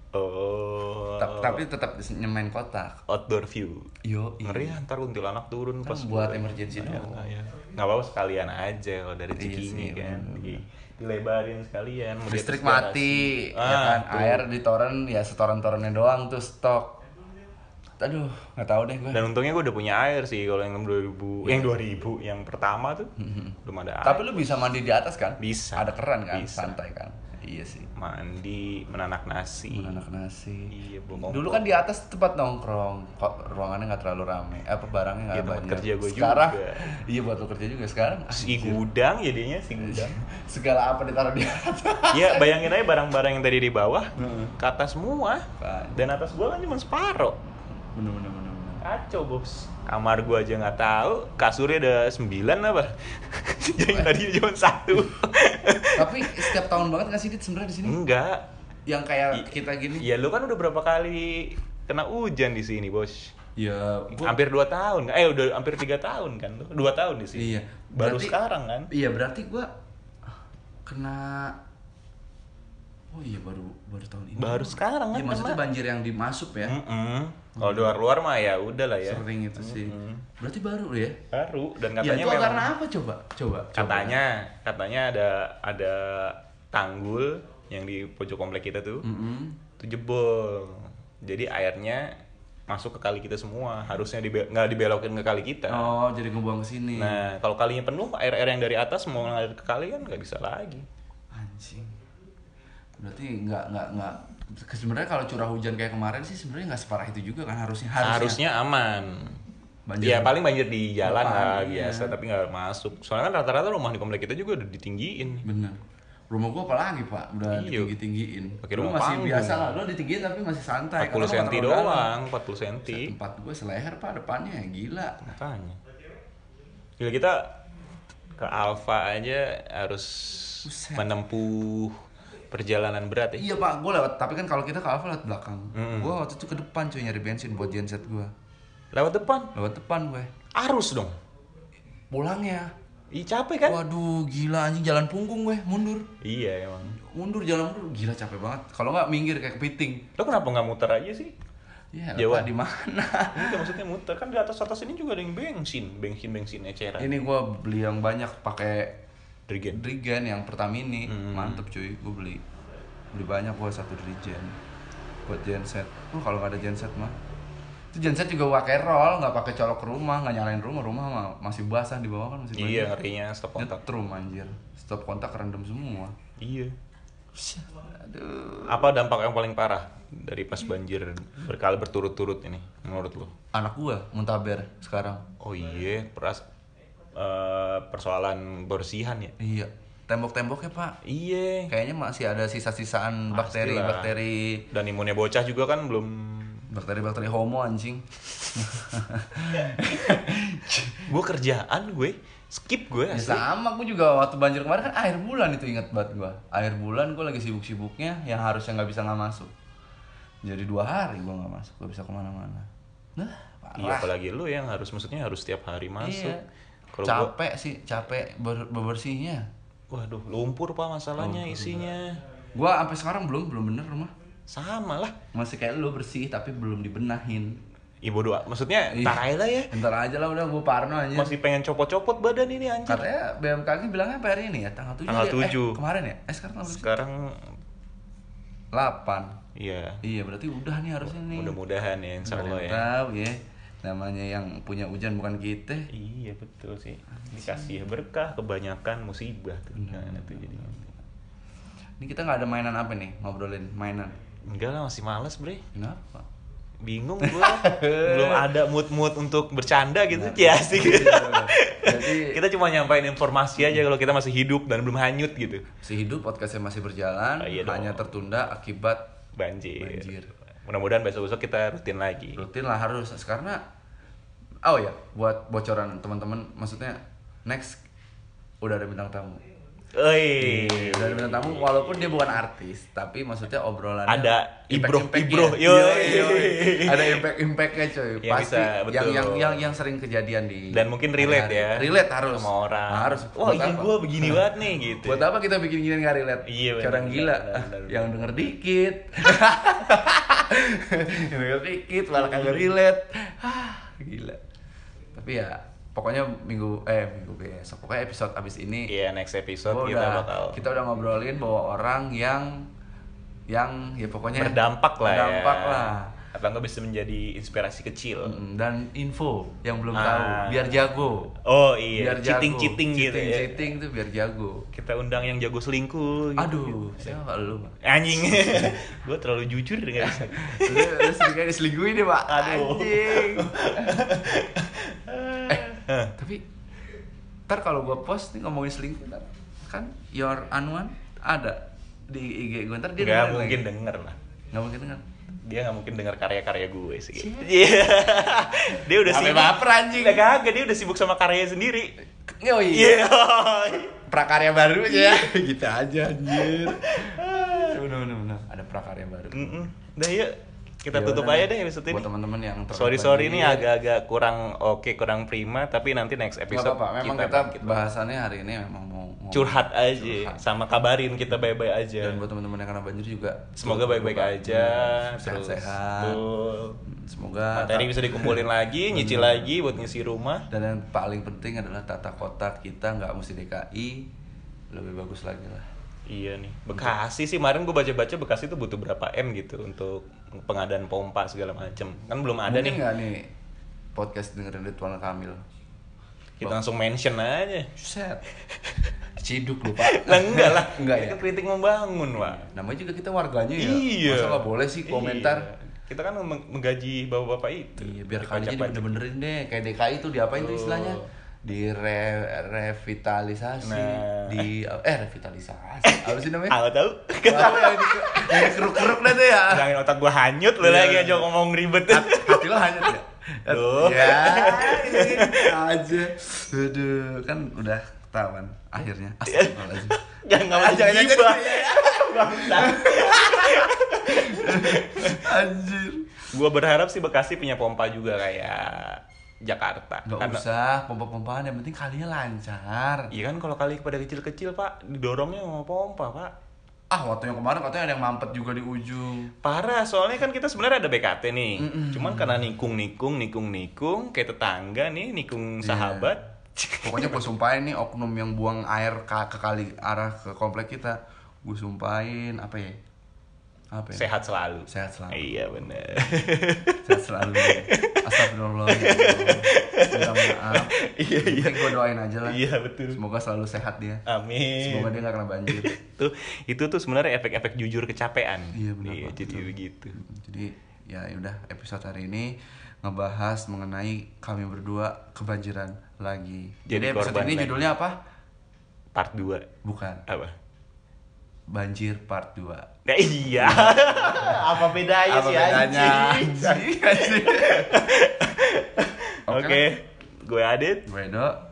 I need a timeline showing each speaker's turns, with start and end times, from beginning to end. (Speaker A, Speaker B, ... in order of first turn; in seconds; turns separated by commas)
Speaker A: 0.1-1.6, Speaker B: 1.2-3.0, Speaker A: 3.1-3.9, Speaker B: 4.0-4.8, Speaker A: 4.4-14.4, Speaker B: 5.8-7.3, Speaker B: 9.3-10.6, Speaker B: 12.3-17.0, Speaker B: 18.0-19.3, Speaker A: 19.1-23.1, Speaker B: 23.2-27.9, Speaker A: 23.6-24.6, Speaker A: 25.4-26.8, Speaker A: 28.0-30.0, Speaker B: 29.7-38.8, Speaker A: 30.7-31.8, Speaker A: 35.3-36.8, Speaker A: 38.3-40.2, Speaker B: 39.8-42.7, Speaker A: 42.1-47.4, Speaker B: 44.2-44.5, Speaker B: 45.6-46.0, Speaker B: 48.0-48.8, Speaker A: 48.8-56.7, Speaker B: 53.8-54.2, Speaker B: 55.9-58.0, Speaker A: 57.8-58.5, Speaker B: 58.9-60.1, Speaker A: 60.0-63.3, Speaker B: 63.6-64.4, Speaker A: 64.2-68.9, Speaker B: 67.3-68.4, Speaker B: 68.9-69.7, Speaker B: 70.9-71.6, Speaker B: 73.1-76.8, Speaker A: 74.4-75.6, Speaker A: 76.7-80.2, Speaker B: 77.6-78.0, Speaker B: 79.0-81.2, Speaker A: 81.3-82.7, Speaker B: 82.0-84.2, Speaker A: 83.8-89.0, Speaker B: 89.0-89.6, Speaker A: 89.8-92.1, Speaker A: 92.7-96.0, Speaker B: 95.7-97.2, Speaker A: 97.0-100.9, Speaker B: 101.3-101.9, Speaker B: 103.0-108.4, Speaker A: 108.0-109.4, Speaker B: 109.9-110.4, Speaker A: 110.0-115.5, Speaker B: 111.0-112.2, Speaker B: 115.4-115.8, Speaker B: 116.3-122.1, Speaker A: 117.5-117.9, Speaker A: 118.6-119.8, Speaker A: 121.0-123.2, Speaker B: 122.9-125.3, Speaker A: 125.2-125.8, Speaker A: 127.0-127.6, Speaker A: 128.4-132.0, Speaker B: 130.6-131.2, Speaker A: 132.5-133.5, Speaker B: 133.4-138.3, Speaker A: 135.8-136.2, Speaker A: 138.9-139.5, Speaker B: 139.6-140.3, Speaker A: 140.6-141.2, Speaker B: 142.1-142.7, Speaker A: 143.1-143.8, Speaker B: 143.6-146.1, Speaker A: 146.2-147.0, Speaker B: 147.0-150.1, Speaker A: 150.2-151.3, Speaker B: 151.9-153.7, Speaker A: 152.2-152.5, Speaker A: 153.3-157.1, Speaker B: 157.0-159.0, Speaker A: 159.5-159.8, Speaker B: 159.7-162.4, Speaker A: 161.1-161.6, Speaker B: 163.1-164.6, Speaker B: 165.3-167.2, Speaker B: 167.9-173.0, Speaker A: 172.6-173.7, Speaker B: 173.6-176.1, Speaker A: 176.4-176.7, Speaker B: 177.3-178.9, Speaker A: 178.7-183.3, Speaker B: 183.5-185.2, Speaker A: 185.4-186.4, Speaker A: 187.2-189.3, Speaker B: 189.4-191.0, Speaker A: 191.0-191.7, Speaker B: 191.7-194.7, Speaker A: 193.3-194.1, Speaker A: 194.7-196.7, Speaker B: 196.7-201.1, Speaker A: 199.6-199.8, Speaker A: 201.1-203.4, Speaker B: 203.1-209.5, Speaker B: 210.4-214.1, Speaker A: 213.8-216.4, Speaker B: 216.0-216.4, Speaker A: 216.9-217.3, Speaker B: 217.1-219.4, Speaker A: 219.9-222.2, Speaker B: 221.2-221.8, Speaker B: 222.6-224.1, Speaker A: 224.5-225.2, Speaker B: 225.3-227.6, Speaker A: 228.0-229.7, Speaker B: 228.9-231.3, Speaker A: 231.1-233.1, Speaker B: 232.9-236.9, Speaker A: 235.1-235.8, Speaker A: 236.6-237.4, Speaker B: 238.7-239.3, Speaker A: 239.6-240.0, Speaker B: 240.0-241.6, Speaker A: 241.0-242.9, Speaker B: 242.2-245.9, Speaker A: 245.9-250.8, Speaker B: 247.2-247.8, Speaker B: 249.7-251.0, Speaker B: 252.0-254.1, Speaker A: 254.5-255.6, Speaker B: 255.8-256.2, Speaker A: 256.8-265.7, Speaker B: 257.2-258.5, Speaker B: 260.1-262.4, Speaker B: 265.8-269.0, Speaker A: 267.4-268.2, Speaker A: 269.4-270.1, Speaker B: 269.8-270.3, Speaker A: 270.6-272.4, Speaker B: 272.3-273.6, Speaker B: 274.6-277.8, Speaker B: 278.6-279.4, Speaker A: 279.9-282.4, Speaker B: 280.4-294.4, Speaker A: 284.1-287.3, Speaker A: 288.2-289.7, Speaker A: 290.7-295.3, Speaker B: 295.0-304.4, Speaker A: 296.5-298.4, Speaker A: 302.1-302.7, Speaker B: 305.1-308.9, Speaker A: 308.9-310.6, Speaker B: 309.6-312.6, Speaker B: 313.5-316.1, Speaker A: 314.4-318.4, Speaker B: 318.2-321.4, Speaker A: 319.9-320.9, Speaker A: 321.4-323.7, Speaker B: 321.9-324.7, Speaker A: 324.7-327.2, Speaker B: 326.4-328.8, Speaker A: 327.8-331.3, Speaker B: 330.0-334.1, Speaker A: 332.3-336.1, Speaker B: 335.5-336.4, Speaker B: 337.5-343.7, Speaker A: 343.0-344.2, Speaker B: 344.5-345.1, Speaker A: 345.4-352.0, Speaker B: 347.2-347.5, Speaker B: 349.0-350.3, Speaker B: 352.3-353.0, Speaker A: 352.7-354.0, Speaker B: 354.0-359.6, Speaker A: 354.9-355.4, Speaker A: 356.3-357.8, Speaker A: 359.3-362.1, Speaker B: 360.9-363.7, Speaker A: 362.7-367.9, Speaker B: 366.5-370.4, Speaker A: 369.3-372.2, Speaker B: 372.0-376.3, Speaker A: 373.6-376.8, Speaker B: 376.9-379.6, Speaker A: 377.5-380.4, Speaker B: 380.5-384.1, Speaker B: 384.7-385.7, Speaker A: 386.1-392.9, Speaker B: 392.5-393.3, Speaker B: 393.9-395.4, Speaker A: 396.4-397.7, Speaker B: 397.8-398.2, Speaker A: 398.5-398.9, Speaker B: 399.2-401.2, Speaker A: 399.8-402.4, Speaker B: 402.2-405.5, Speaker A: 403.6-408.9, Speaker B: 407.8-416.6, Speaker A: 410.3-411.1, Speaker A: 413.6-414.5, Speaker A: 415.8-422.9, Speaker B: 417.2-419.7, Speaker B: 420.6-421.3, Speaker B: 421.9-436.2, Speaker A: 423.5-425.6, Speaker A: 429.3-435.3, Speaker A: 436.3-440.4, Speaker B: 440.1-443.1, Speaker A: 443.1-446.3, Speaker B: 446.9-449.3, Speaker A: 449.4-457.2, Speaker B: 451.6-452.5, Speaker B: 455.6-456.1, Speaker B: 456.8-462.8, Speaker B: 463.7-464.1, Speaker A: 463.9-473.0, Speaker B: 464.7-465.3, Speaker B: 466.8-474.0, Speaker A: 474.1-475.0, Speaker B: 474.6-475.8, Speaker A: 475.5-480.0, Speaker B: 478.5-488.0, Speaker A: 486.7-487.7, Speaker A: 488.9-489.5, Speaker B: 489.6-490.0, Speaker A: 490.1-490.4, Speaker B: 491.5-492.7, Speaker A: 492.9-500.9, Speaker B: 493.3-497.7, Speaker B: 499.3-499.7, Speaker B: 500.9-501.4